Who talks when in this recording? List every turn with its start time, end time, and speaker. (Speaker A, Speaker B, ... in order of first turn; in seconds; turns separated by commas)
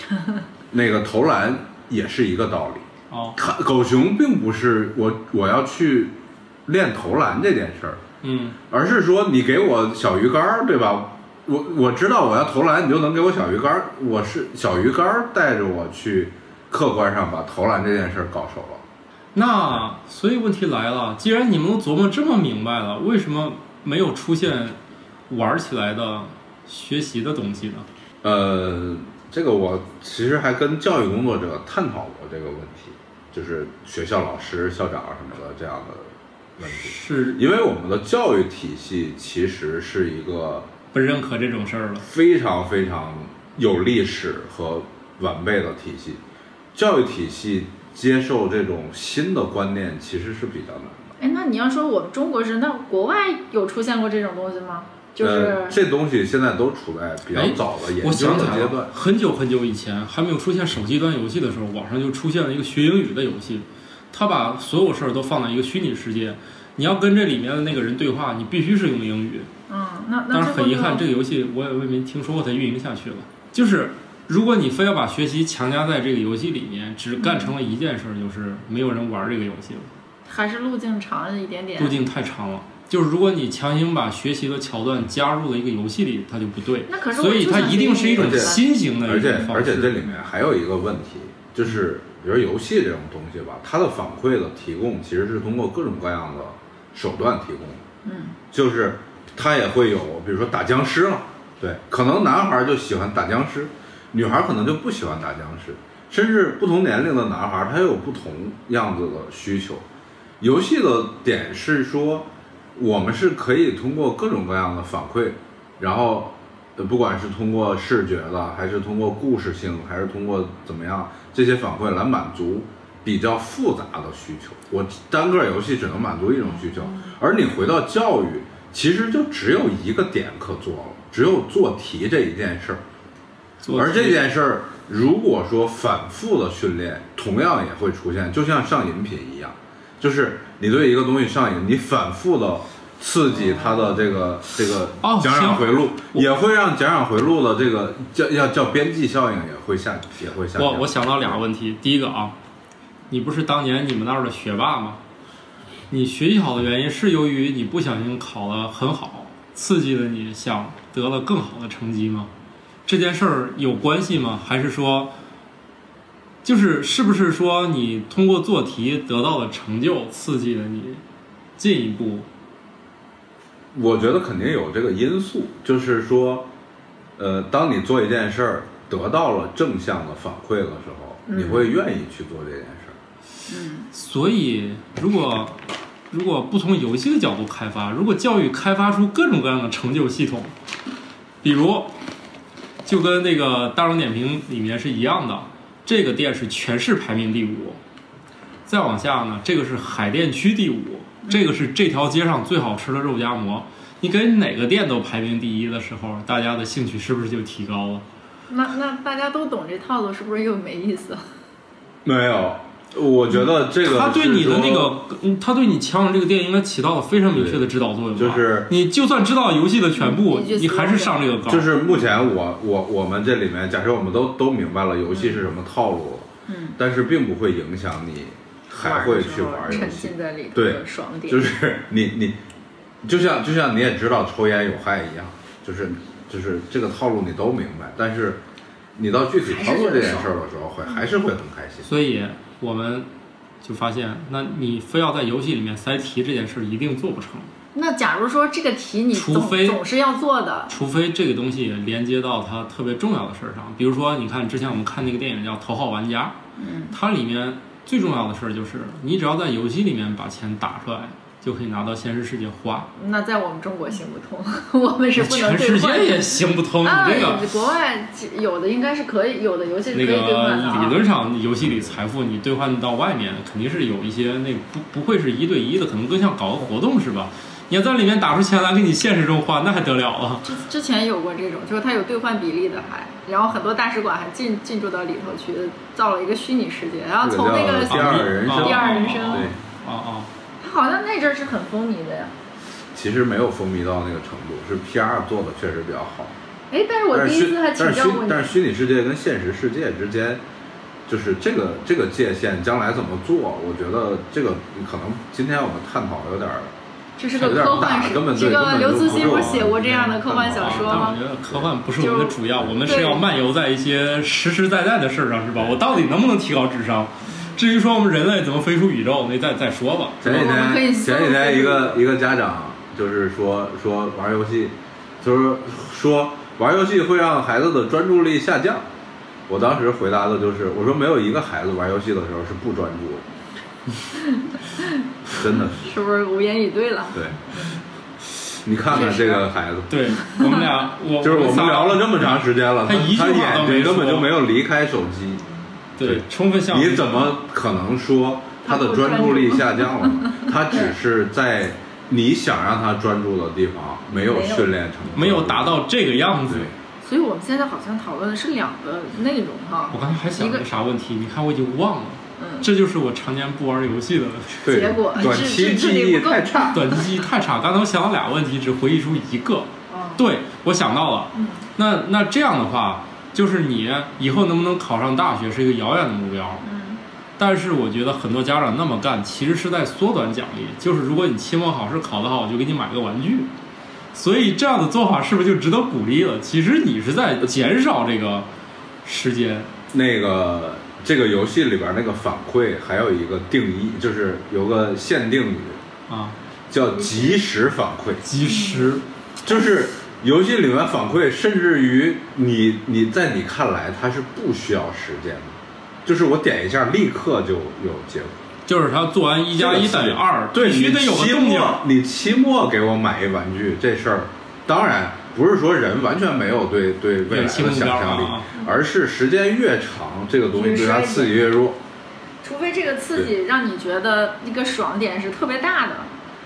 Speaker A: 0.7-8.0, Speaker B: 3.1-3.4, Speaker B: 8.2-8.6, Speaker A: 8.7-18.8, Speaker B: 19.3-24.8, Speaker B: 25.3-27.9, Speaker A: 28.2-40.7, Speaker B: 36.6-37.4, Speaker B: 40.9-42.0, Speaker A: 42.0-46.2, Speaker A: 46.7-51.1, Speaker C: 51.2-55.8, Speaker A: 55.2-58.9, Speaker B: 57.3-69.5, Speaker C: 69.7-71.0, Speaker B: 70.3-79.9, Speaker C: 77.2-77.5, Speaker C: 80.3-82.0, Speaker B: 81.8-89.9, Speaker C: 86.9-89.5, Speaker A: 88.1-97.8, Speaker C: 98.0-98.4, Speaker A: 98.5-109.8, Speaker A: 110.4-132.8, Speaker B: 133.6-134.2, Speaker A: 133.7-151.4, Speaker B: 145.0-146.3, Speaker B: 150.6-152.3, Speaker B: 153.1-155.0, Speaker B: 155.9-162.3, Speaker B: 162.8-165.1, Speaker B: 166.4-171.0, Speaker B: 171.6-172.3, Speaker A: 173.7-176.5, Speaker A: 177.2-183.0, Speaker C: 181.3-181.7, Speaker C: 183.5-183.9, Speaker B: 183.9-185.6, Speaker B: 186.1-190.5, Speaker B: 191.4-191.9, Speaker B: 192.8-197.8, Speaker B: 198.7-208.0, Speaker C: 208.5-211.2, Speaker A: 212.0-214.9, Speaker B: 213.8-221.7, Speaker A: 217.3-218.7, Speaker C: 219.9-221.3, Speaker A: 221.5-232.4, Speaker C: 225.1-225.4, Speaker C: 226.5-226.8, Speaker C: 228.7-231.5, Speaker A: 233.0-238.4, Speaker A: 238.9-241.9, Speaker C: 239.4-240.3, Speaker B: 241.8-243.1, Speaker B: 243.6-247.5, Speaker C: 247.7-250.7, Speaker B: 249.1-249.8, Speaker B: 250.7-256.4, Speaker C: 256.6-256.9, Speaker B: 256.9-262.9, Speaker C: 262.9-271.0, Speaker B: 265.1-267.4, Speaker B: 269.9-280.5, Speaker A: 271.6-272.0, Speaker C: 280.4-289.5, Speaker A: 287.2-289.6, Speaker B: 287.9-290.3, Speaker C: 290.6-292.3, Speaker A: 292.9-296.3, Speaker C: 296.7-298.6, Speaker A: 297.1-300.4, Speaker A: 301.1-306.7, Speaker C: 307.2-311.2, Speaker A: 307.4-311.6, Speaker B: 307.6-307.9, Speaker B: 309.0-320.3, Speaker C: 312.0-313.2, Speaker A: 320.2-328.9, Speaker C: 320.2-322.0, Speaker A: 329.5-333.2, Speaker C: 334.2-334.9, Speaker A: 335.3-335.9, Speaker C: 335.8-337.7, Speaker A: 337.1-337.4, Speaker A: 338.6-339.9, Speaker C: 338.9-339.4, Speaker B: 339.9-342.2, Speaker A: 341.2-345.4, Speaker B: 342.8-344.3, Speaker B: 346.0-347.3, Speaker A: 346.0-355.8, Speaker C: 348.6-350.9, Speaker C: 354.3-354.6, Speaker B: 355.1-356.7, Speaker A: 356.5-356.7, Speaker C: 357.0-360.6, Speaker B: 359.9-364.7, Speaker C: 362.4-362.6, Speaker A: 364.6-367.0, Speaker C: 364.6-366.9, Speaker B: 366.7-376.6, Speaker C: 369.9-370.2, Speaker C: 371.3-371.6, Speaker C: 376.6-377.0, Speaker B: 377.4-383.5, Speaker B: 384.1-388.5, Speaker B: 389.0-389.7, Speaker A: 389.9-395.8, Speaker B: 396.1-396.4, Speaker A: 396.7-398.2, Speaker B: 398.2-399.0, Speaker C: 398.4-399.0, Speaker A: 399.4-408.5, Speaker B: 408.7-411.8, Speaker A: 409.5-421.8, Speaker B: 417.3-418.5, Speaker C: 420.5-421.4, Speaker C: 422.4-426.1